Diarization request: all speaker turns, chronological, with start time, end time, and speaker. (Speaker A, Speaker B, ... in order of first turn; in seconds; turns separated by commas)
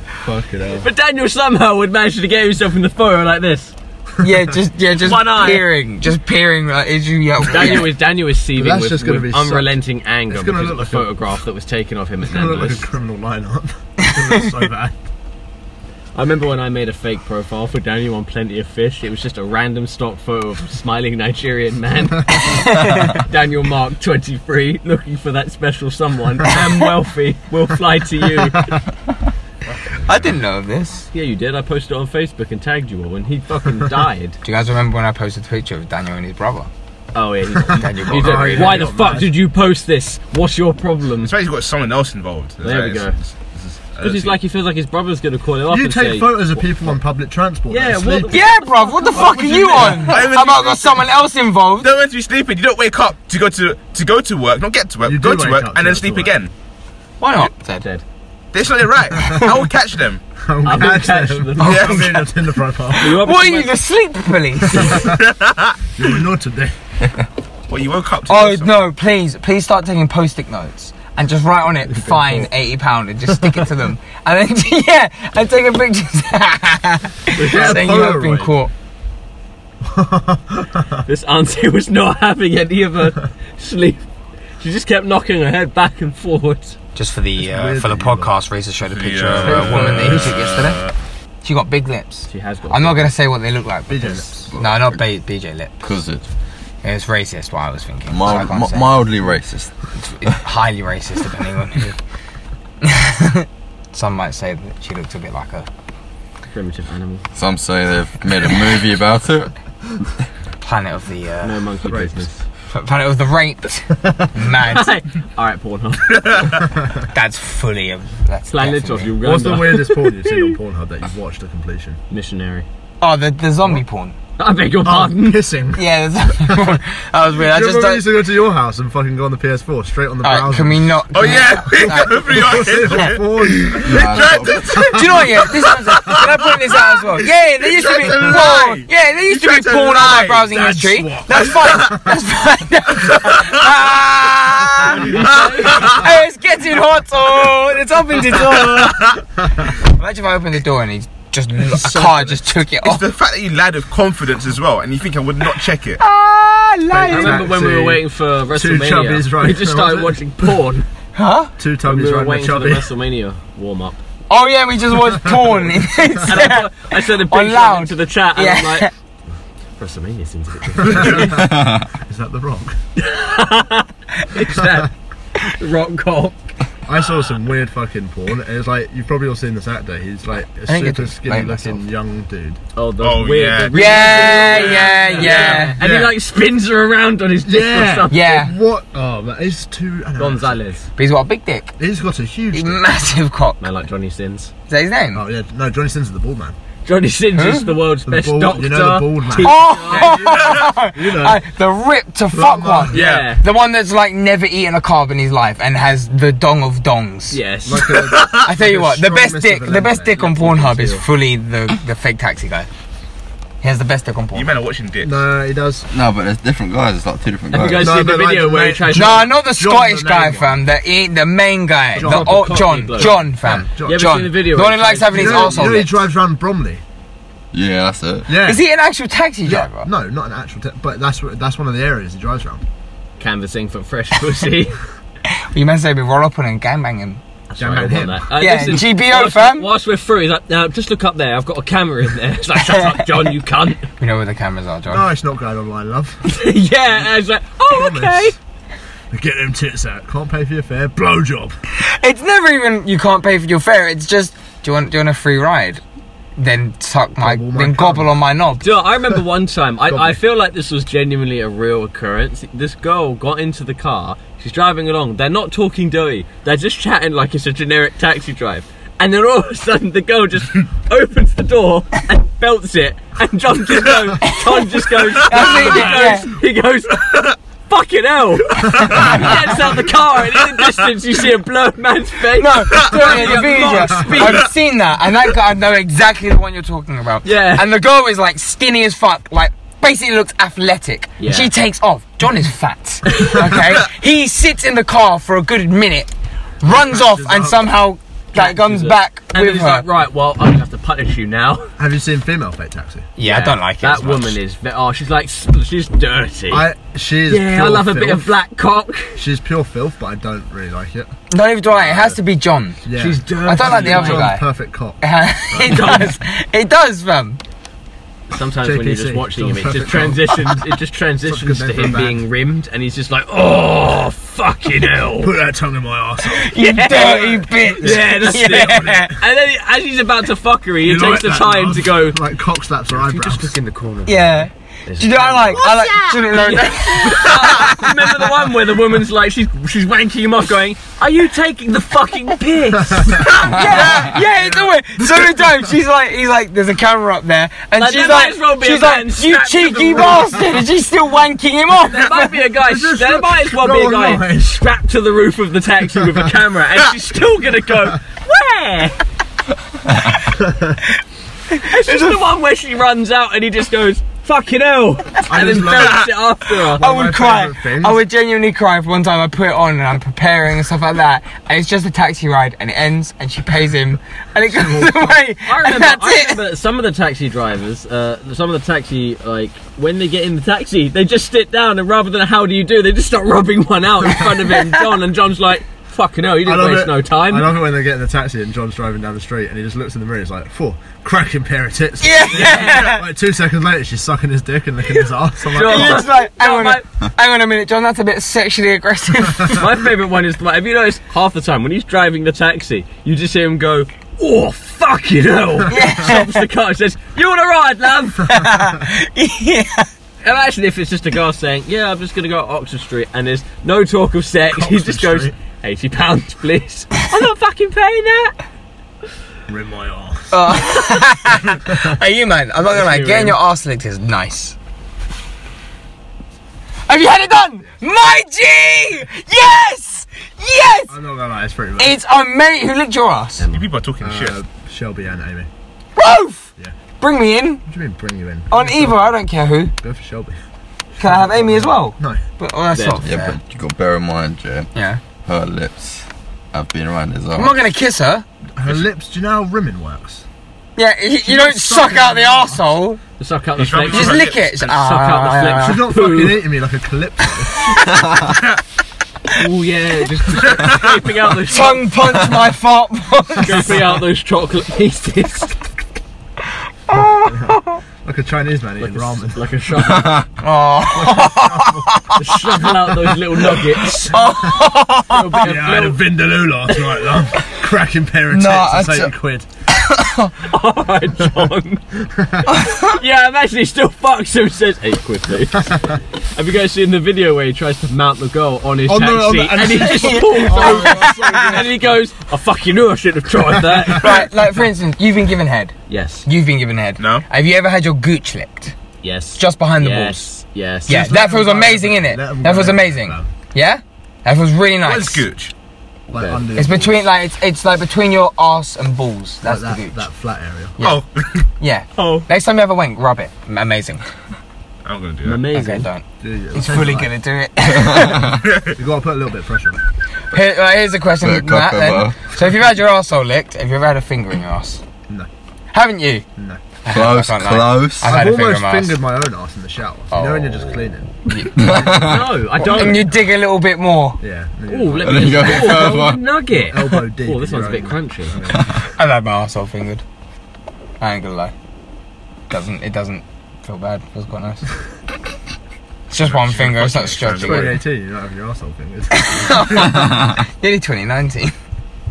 Speaker A: 0.2-0.9, Speaker B: 0.8-3.7, Speaker C: 4.2-7.9, Speaker A: 4.2-4.5, Speaker B: 5.0-5.7, Speaker B: 7.5-12.9, Speaker A: 8.5-9.7, Speaker A: 10.3-11.1, Speaker A: 12.2-14.9, Speaker B: 16.1-28.7, Speaker C: 22.8-23.1, Speaker C: 30.1-31.1, Speaker B: 31.1-34.4, Speaker C: 34.4-36.7, Speaker B: 37.1-41.4, Speaker A: 37.7-39.3, Speaker C: 37.7-38.9, Speaker D: 41.2-44.3, Speaker B: 42.6-43.2, Speaker B: 44.0-47.0, Speaker A: 45.7-48.4, Speaker B: 47.7-50.1, Speaker C: 48.3-51.9, Speaker A: 49.2-50.2, Speaker D: 50.0-51.0, Speaker D: 51.8-56.5, Speaker A: 55.0-56.4, Speaker C: 57.2-57.9, Speaker D: 58.5-60.2, Speaker A: 60.4-63.2, Speaker B: 60.6-62.0, Speaker D: 61.6-62.0, Speaker B: 63.0-63.7, Speaker C: 63.0-65.0, Speaker A: 64.7-65.2, Speaker D: 65.2-65.7, Speaker A: 65.9-66.8, Speaker D: 67.7-68.8, Speaker C: 68.3-78.7, Speaker A: 71.9-72.5, Speaker B: 77.3-78.2, Speaker A: 77.4-78.5, Speaker A: 79.8-81.0, Speaker B: 81.0-84.1, Speaker B: 84.6-86.8, Speaker C: 87.0-90.8, Speaker A: 87.4-88.3, Speaker D: 88.9-90.9, Speaker A: 89.5-90.3, Speaker C: 91.4-95.9, Speaker B: 92.3-93.1, Speaker A: 93.9-94.5, Speaker E: 94.5-95.0, Speaker E: 95.8-96.2, Speaker C: 96.8-99.1, Speaker E: 98.1-99.7, Speaker C: 100.0-101.9, Speaker C: 102.8-105.7, Speaker B: 106.5-107.2, Speaker E: 107.3-109.5, Speaker C: 110.6-111.6, Speaker B: 111.4-112.4, Speaker A: 111.8-112.2, Speaker C: 112.7-114.9, Speaker B: 114.6-116.6, Speaker A: 116.6-117.1, Speaker C: 117.1-119.1, Speaker B: 118.5-120.5, Speaker A: 119.2-122.0, Speaker B: 122.1-122.7, Speaker C: 123.0-124.1, Speaker B: 124.4-125.4, Speaker A: 124.8-126.8, Speaker C: 125.7-128.0, Speaker A: 127.3-136.2, Speaker C: 130.2-133.0, Speaker D: 131.1-135.0, Speaker E: 133.9-134.6, Speaker C: 134.9-145.1, Speaker D: 137.7-140.4, Speaker A: 138.1-138.4, Speaker A: 140.4-142.2, Speaker B: 145.1-146.0, Speaker D: 145.2-146.0, Speaker C: 145.7-149.1, Speaker A: 149.4-149.7, Speaker C: 149.8-153.0, Speaker A: 151.7-152.4, Speaker D: 152.8-156.0, Speaker C: 156.0-157.5, Speaker A: 156.9-160.2, Speaker B: 157.1-160.8, Speaker C: 161.2-161.5, Speaker A: 161.6-162.9, Speaker B: 161.8-164.0, Speaker C: 164.3-168.9, Speaker A: 165.2-165.6, Speaker B: 166.2-168.9, Speaker B: 169.8-171.4, Speaker A: 170.7-172.8, Speaker E: 171.4-171.8, Speaker B: 172.9-176.4, Speaker A: 174.5-174.9, Speaker A: 176.9-182.6, Speaker C: 180.7-181.8, Speaker B: 182.7-188.2, Speaker D: 183.0-183.8, Speaker C: 183.7-185.8, Speaker A: 184.3-184.6, Speaker A: 185.1-186.1, Speaker A: 187.4-190.6, Speaker C: 188.1-188.5, Speaker B: 190.2-190.9, Speaker C: 191.0-191.7, Speaker A: 191.8-192.8, Speaker C: 192.5-193.6, Speaker B: 193.6-194.5, Speaker C: 194.7-195.2, Speaker A: 195.1-196.6, Speaker B: 196.8-200.2, Speaker C: 197.3-197.7, Speaker A: 198.1-201.4, Speaker C: 199.4-207.4, Speaker A: 202.3-203.2, Speaker B: 202.9-203.4, Speaker B: 207.3-208.0, Speaker A: 207.6-211.0, Speaker C: 208.4-212.7, Speaker B: 210.6-210.9, Speaker C: 213.6-214.5, Speaker D: 214.3-215.2, Speaker A: 215.0-215.8, Speaker E: 215.9-218.1, Speaker B: 217.5-219.3, Speaker A: 217.8-220.6, Speaker C: 218.9-226.0, Speaker A: 221.9-224.3, Speaker B: 221.9-223.2, Speaker B: 223.8-225.8, Speaker A: 225.1-226.8, Speaker E: 227.5-228.3, Speaker A: 228.3-228.6, Speaker C: 228.4-229.9, Speaker A: 229.4-232.6, Speaker B: 233.2-234.8, Speaker C: 235.5-237.2, Speaker A: 237.5-238.2, Speaker B: 237.6-243.9, Speaker C: 238.4-239.7, Speaker C: 244.0-245.1, Speaker A: 244.9-246.2, Speaker B: 246.2-248.3, Speaker A: 247.7-248.3, Speaker A: 249.1-251.5, Speaker C: 251.8-255.8, Speaker C: 256.4-258.7, Speaker A: 257.2-258.1, Speaker B: 258.6-284.5, Speaker A: 259.9-260.2, Speaker C: 275.2-276.3, Speaker A: 275.4-276.1, Speaker A: 278.7-279.3, Speaker C: 282.4-296.1, Speaker A: 283.1-284.2, Speaker B: 287.2-287.7, Speaker B: 291.2-291.5, Speaker B: 293.1-293.4, Speaker C: 296.6-299.9, Speaker A: 296.6-297.8, Speaker B: 298.3-301.7, Speaker A: 301.8-303.1, Speaker C: 303.2-304.4, Speaker B: 303.2-306.7, Speaker A: 306.5-308.3, Speaker B: 307.3-309.2, Speaker A: 309.1-311.1, Speaker C: 311.3-312.8, Speaker A: 311.8-312.1, Speaker A: 312.8-316.0, Speaker B: 312.9-314.3, Speaker C: 313.4-314.4, Speaker C: 315.0-317.4, Speaker B: 315.6-316.2, Speaker B: 318.3-325.3, Speaker A: 318.6-320.6, Speaker A: 321.2-322.2, Speaker A: 325.2-329.1, Speaker C: 326.4-329.1, Speaker B: 326.6-332.2, Speaker A: 330.8-333.5, Speaker B: 332.9-344.0, Speaker C: 334.1-337.8, Speaker A: 342.7-345.8, Speaker C: 343.3-352.4, Speaker B: 347.8-350.5, Speaker B: 351.9-359.0, Speaker A: 352.6-354.6, Speaker A: 360.3-360.8, Speaker B: 361.6-366.9, Speaker A: 365.3-366.1, Speaker A: 366.6-368.0, Speaker C: 366.8-376.4, Speaker A: 374.4-375.2, Speaker B: 375.4-387.6, Speaker A: 386.4-396.1, Speaker C: 392.0-393.0, Speaker B: 392.3-392.9, Speaker B: 395.5-396.8, Speaker C: 395.6-399.6, Speaker B: 399.5-408.3, Speaker C: 405.7-406.4, Speaker C: 408.3-409.9, Speaker B: 410.2-418.3, Speaker A: 414.5-415.3, Speaker A: 419.5-420.4, Speaker C: 420.3-424.5, Speaker B: 422.7-423.4, Speaker C: 426.9-430.9, Speaker A: 430.9-432.0, Speaker C: 431.8-433.4, Speaker B: 433.4-433.7, Speaker D: 433.5-434.3, Speaker A: 434.0-435.5, Speaker C: 435.9-437.6, Speaker A: 437.6-439.2, Speaker C: 438.5-439.7, Speaker A: 439.8-440.4, Speaker A: 441.0-442.2, Speaker C: 441.0-443.4, Speaker B: 442.7-443.0, Speaker E: 443.0-444.7, Speaker C: 444.7-445.0, Speaker E: 445.2-447.6, Speaker C: 447.3-448.2, Speaker A: 448.6-450.2, Speaker C: 450.8-453.0, Speaker A: 451.2-452.6, Speaker B: 453.2-456.5, Speaker D: 453.7-454.1, Speaker C: 453.9-455.8, Speaker A: 455.6-457.7, Speaker B: 459.4-461.9, Speaker C: 461.5-463.8, Speaker B: 463.4-465.6, Speaker C: 466.9-467.8, Speaker A: 466.9-470.1, Speaker B: 468.8-470.2, Speaker C: 470.4-472.2, Speaker A: 470.8-472.1, Speaker B: 472.2-474.2, Speaker A: 473.9-474.4, Speaker C: 474.0-475.4, Speaker B: 475.1-476.1, Speaker A: 475.4-479.5, Speaker B: 476.6-477.2, Speaker C: 478.3-479.1, Speaker C: 479.7-480.3, Speaker B: 480.4-481.8, Speaker A: 482.1-482.5, Speaker B: 482.8-494.2, Speaker A: 488.9-492.0, Speaker C: 490.1-491.3, Speaker A: 493.9-494.2, Speaker C: 494.0-495.7, Speaker B: 495.9-496.3, Speaker C: 496.2-498.7, Speaker D: 497.0-497.2, Speaker B: 499.0-501.1, Speaker C: 499.4-500.3, Speaker C: 500.9-505.2, Speaker A: 500.9-503.3, Speaker D: 505.1-505.5, Speaker A: 506.1-507.1, Speaker B: 506.1-506.4, Speaker C: 506.5-510.0, Speaker A: 509.4-510.8, Speaker C: 510.8-511.1, Speaker C: 511.6-514.0, Speaker B: 511.9-512.3, Speaker D: 514.8-515.4, Speaker B: 515.2-515.9, Speaker C: 515.5-518.3, Speaker A: 516.2-517.1, Speaker E: 517.9-518.2, Speaker A: 518.7-519.8, Speaker C: 520.3-524.8, Speaker E: 521.2-522.2, Speaker C: 525.7-526.2, Speaker A: 526.4-526.6, Speaker C: 526.8-529.0, Speaker E: 526.9-528.2, Speaker A: 528.0-533.1, Speaker C: 530.1-532.0, Speaker E: 531.5-532.3, Speaker B: 531.9-533.1, Speaker C: 532.6-534.2, Speaker A: 534.2-538.9, Speaker B: 534.7-538.4, Speaker E: 535.0-536.2, Speaker C: 539.0-540.0, Speaker C: 541.0-541.5, Speaker C: 542.5-544.6, Speaker C: 546.1-547.8, Speaker A: 547.4-550.2, Speaker C: 549.1-551.5